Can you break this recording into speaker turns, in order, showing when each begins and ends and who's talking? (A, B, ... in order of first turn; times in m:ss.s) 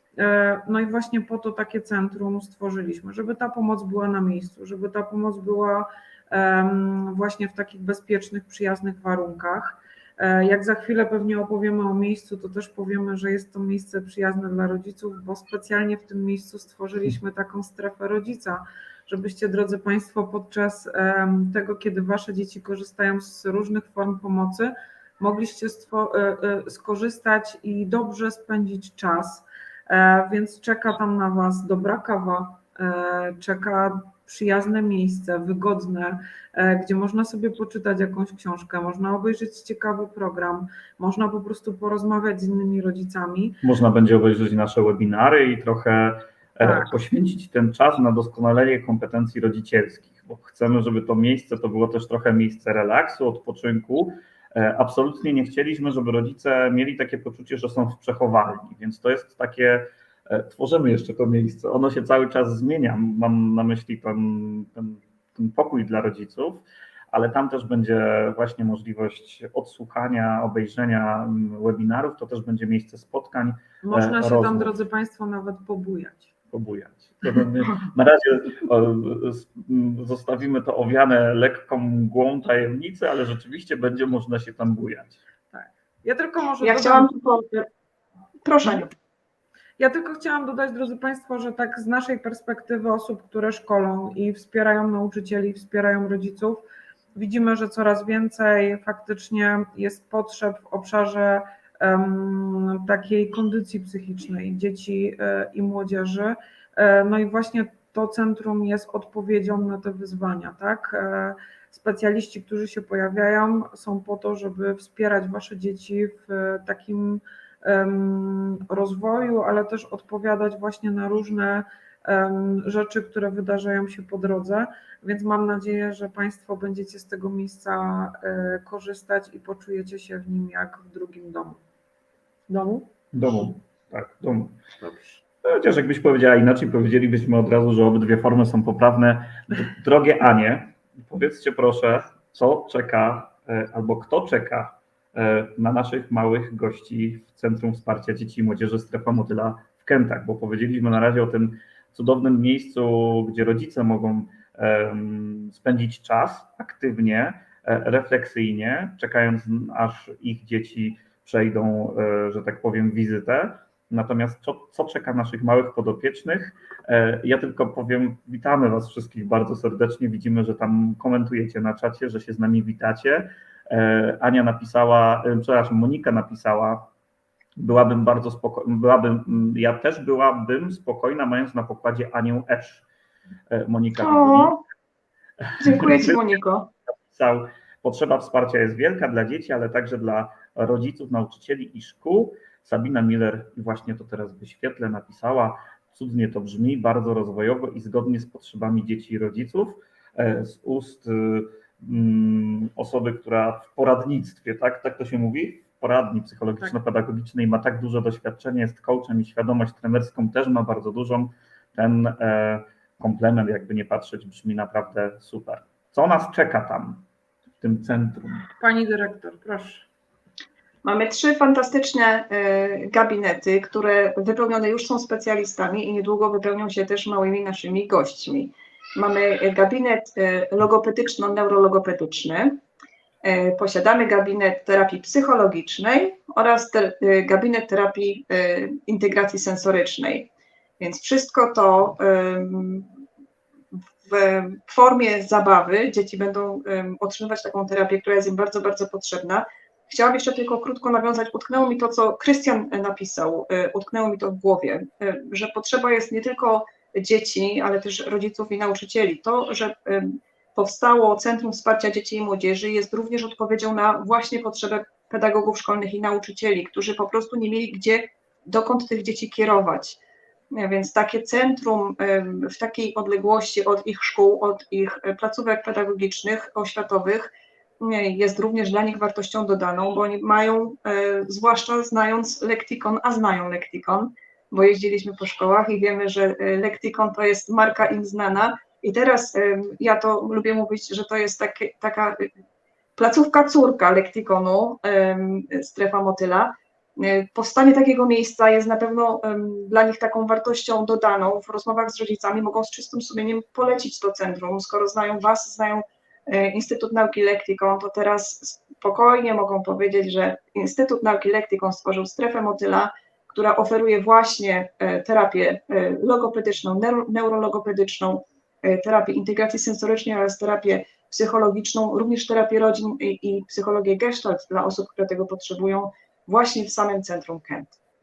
0:00.2-0:43.6 A
0:43.6-1:14.8 B
0:46.6-0:47.0 A
1:13.8-1:16.3 A
1:16.5-1:25.2 B
1:25.5-1:27.1 A
1:26.6-1:27.7 C
1:28.4-1:28.9 C
1:29.8-1:36.6 A
1:37.2-2:11.6 A
2:12.5-2:12.9 A
2:13.1-2:14.6 B
2:14.8-2:15.2 A
2:15.4-2:56.9 B
2:57.6-3:02.8 B
3:03.5-3:04.6 B
3:04.0-3:04.6 C
3:05.4-3:06.2 B
3:05.6-3:06.7 C
3:07.1-3:37.0 B
3:37.6-3:38.5 B
3:38.6-3:39.9 A
3:40.8-3:52.6 C
3:53.2-4:02.9 C
4:04.0-4:30.0 C
4:30.5-4:52.3 C
4:53.0-5:27.8 C